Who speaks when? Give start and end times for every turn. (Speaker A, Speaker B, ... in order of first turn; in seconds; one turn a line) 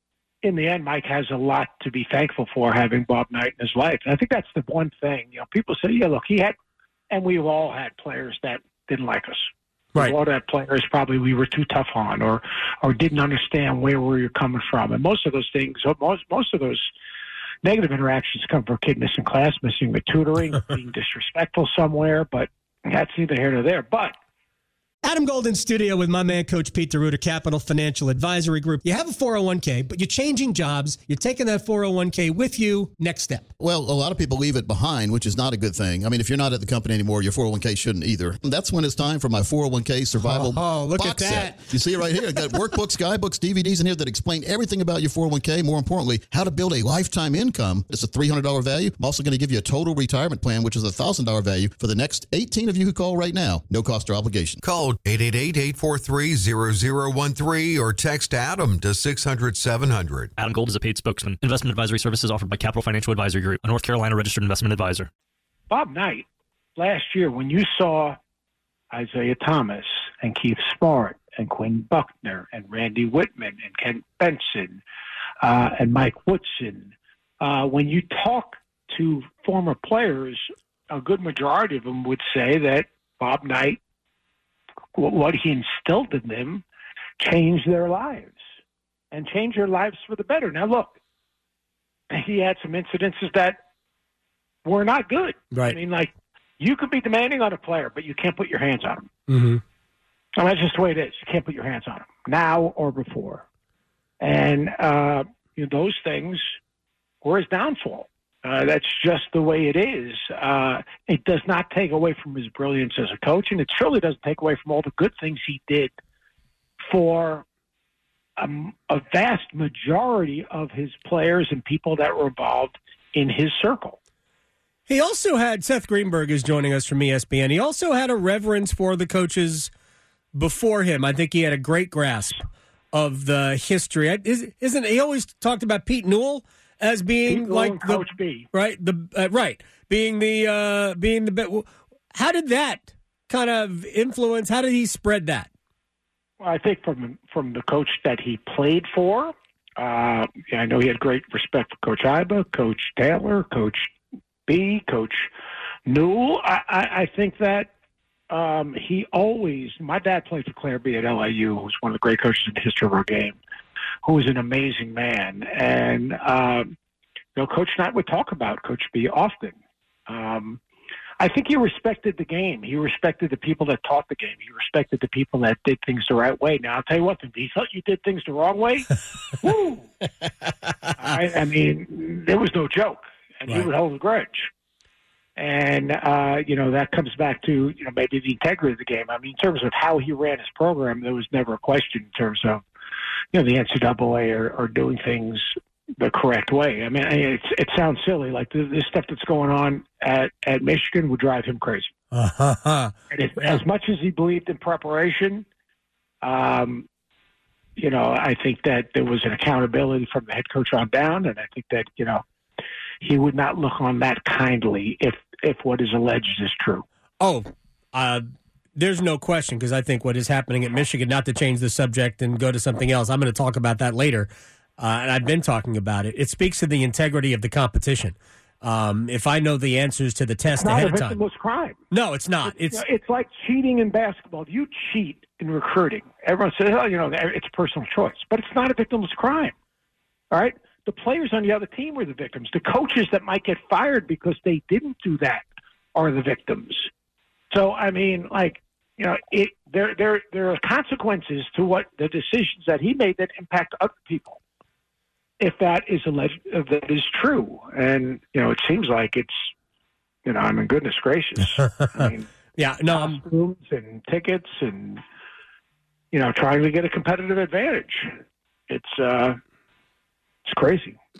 Speaker A: 0.4-6.5
Speaker A: 7.1-16.9
Speaker A: 17.6-24.1
Speaker B: 25.0-33.5
Speaker C: 33.6-54.6
Speaker B: 40.2-42.7
Speaker D: 54.6-60.3
Speaker E: 60.4-65.1
Speaker A: 65.7-66.2
Speaker A: 66.8-68.2
Speaker A: 68.9-74.8
Speaker A: 75.4-83.8
Speaker A: 85.0-86.6
Speaker A: 87.2-88.4
Speaker A: 89.1-91.0
Speaker A: 92.1-93.6
Speaker A: 94.7-99.1
Speaker B: 99.3-99.6
Speaker A: 100.4-103.4
Speaker A: 104.2-106.5
Speaker A: 107.2-115.9
Speaker A: 116.8-117.5
Speaker A: 118.4-124.0
Speaker B: 124.9-129.7
Speaker B: 130.3-145.5
Speaker A: 137.3-138.5
Speaker A: 146.4-153.9
Speaker A: 154.5-155.3
Speaker A: 155.9-157.7
Speaker A: 158.3-163.4
Speaker A: 164.0-166.7
Speaker A: 167.4-169.6
Speaker A: 170.1-170.6
Speaker A: 171.2-179.9
Speaker A: 181.0-184.5
Speaker A: 185.4-192.6
Speaker A: 193.3-201.9
Speaker B: 202.1-203.6
Speaker A: 203.1-205.4
Speaker A: 206.2-206.9
Speaker A: 207.8-212.2
Speaker A: 213.0-216.8
Speaker B: 217.2-231.2
Speaker A: 230.6-231.8
Speaker B: 231.9-232.8
Speaker A: 232.4-239.5
Speaker A: 240.3-246.9
Speaker A: 247.5-254.4
Speaker A: 255.4-259.5
Speaker A: 260.2-262.3
Speaker B: 262.6-263.2
Speaker A: 262.9-265.0
Speaker A: 266.1-268.1
Speaker A: 268.7-269.4
Speaker A: 270.5-271.0